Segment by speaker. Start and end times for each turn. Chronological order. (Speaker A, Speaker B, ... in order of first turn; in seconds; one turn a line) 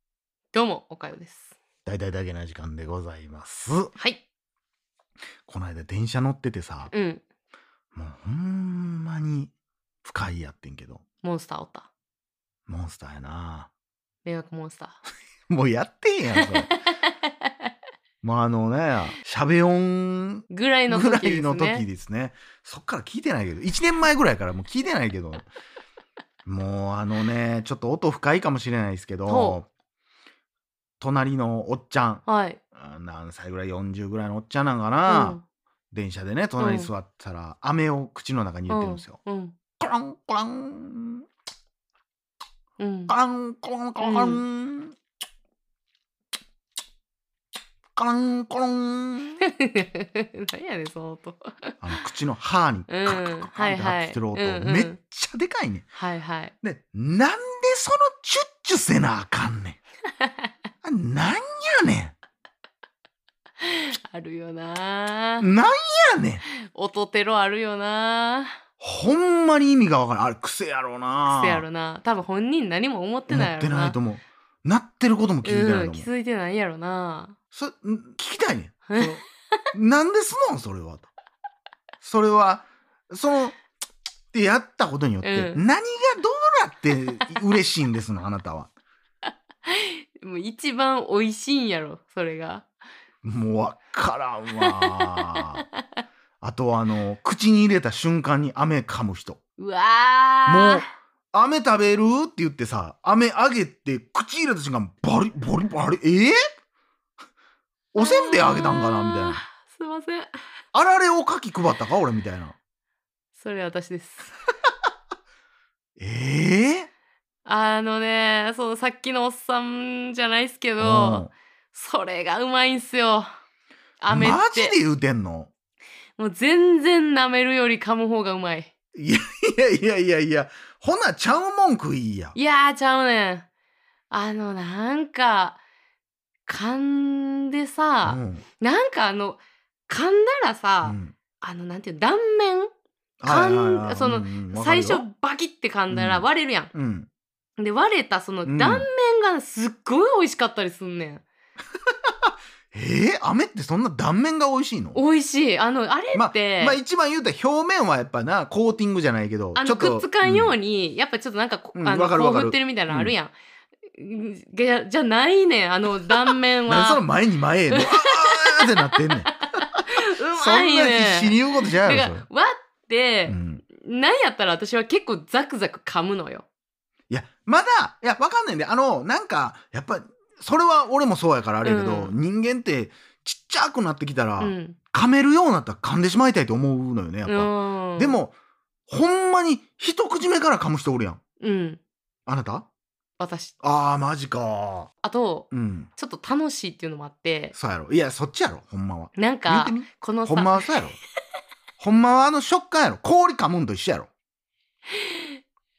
Speaker A: 0.5-1.5
Speaker B: 1.9-3.9
Speaker B: 5.5-6.9
Speaker A: 6.9-7.2
Speaker B: 7.9-9.5
Speaker B: 10.0-11.0
Speaker A: 11.2-11.9
Speaker B: 12.7-13.7
Speaker A: 14.2-15.0
Speaker B: 15.5-16.8
Speaker A: 16.4-16.8
Speaker B: 18.2-25.5
Speaker A: 20.5-21.9
Speaker B: 26.4-29.7
Speaker A: 29.3-29.6
Speaker B: 31.0-35.4
Speaker A: 32.3-32.6
Speaker A: 35.1-35.4
Speaker B: 35.9-39.2
Speaker A: 36.6-36.9
Speaker A: 38.7-39.5
Speaker B: 39.8-41.3
Speaker A: 42.8-43.1
Speaker B: 43.1-45.0
Speaker A: 44.0-44.4
Speaker B: 48.0-49.4
Speaker A: 49.4-51.8
Speaker B: 51.8-55.9
Speaker A: 52.9-55.0
Speaker A: 56.0-56.5
Speaker B: 56.6-59.8
Speaker B: 60.8-62.1
Speaker A: 63.6-65.5
Speaker B: 65.4-66.4
Speaker A: 66.6-68.6
Speaker B: 68.8-71.7
Speaker A: 71.3-74.0
Speaker B: 73.3-76.1
Speaker A: 75.5-77.4
Speaker B: 77.5-79.2
Speaker A: 78.9-79.2
Speaker B: 79.7-81.1
Speaker B: 82.0-83.6
Speaker B: 84.3-88.7
Speaker A: 85.2-85.6
Speaker A: 89.7-92.7
Speaker B: 93.2-95.6
Speaker A: 94.6-95.5
Speaker B: 96.4-99.4
Speaker A: 99.6-100.9
Speaker B: 100.5-106.4
Speaker B: 107.9-109.4
Speaker A: 108.0-110.3
Speaker B: 110.7-112.5
Speaker A: 113.4-114.3
Speaker B: 116.0-116.9
Speaker A: 117.5-123.3
Speaker B: 120.8-121.3
Speaker A: 124.0-124.8
Speaker B: 124.1-125.5
Speaker A: 126.2-128.7
Speaker B: 128.9-132.3
Speaker A: 132.3-133.5
Speaker A: 134.1-135.6
Speaker A: 136.5-142.7
Speaker B: 138.1-138.4
Speaker B: 140.8-141.1
Speaker B: 143.2-145.1
Speaker A: 143.2-146.7
Speaker B: 145.9-147.1
Speaker A: 147.6-151.2
Speaker B: 148.5-148.9
Speaker B: 152.1-155.0
Speaker A: 154.9-156.8
Speaker B: 156.1-160.5
Speaker A: 159.6-163.3
Speaker B: 161.8-163.1
Speaker A: 163.9-167.0
Speaker B: 166.7-169.4
Speaker A: 167.7-176.4
Speaker B: 169.9-172.2
Speaker B: 173.3-173.6
Speaker B: 177.1-188.3
Speaker A: 181.6-182.2
Speaker A: 184.4-184.8
Speaker A: 187.3-188.2
Speaker B: 188.9-191.2
Speaker A: 191.4-191.8
Speaker B: 192.3-192.7
Speaker A: 193.2-193.6
Speaker B: 193.6-194.9
Speaker A: 195.0-197.6
Speaker B: 195.5-195.9
Speaker B: 197.5-201.0
Speaker A: 199.2-200.7
Speaker B: 201.8-204.1
Speaker A: 204.9-205.4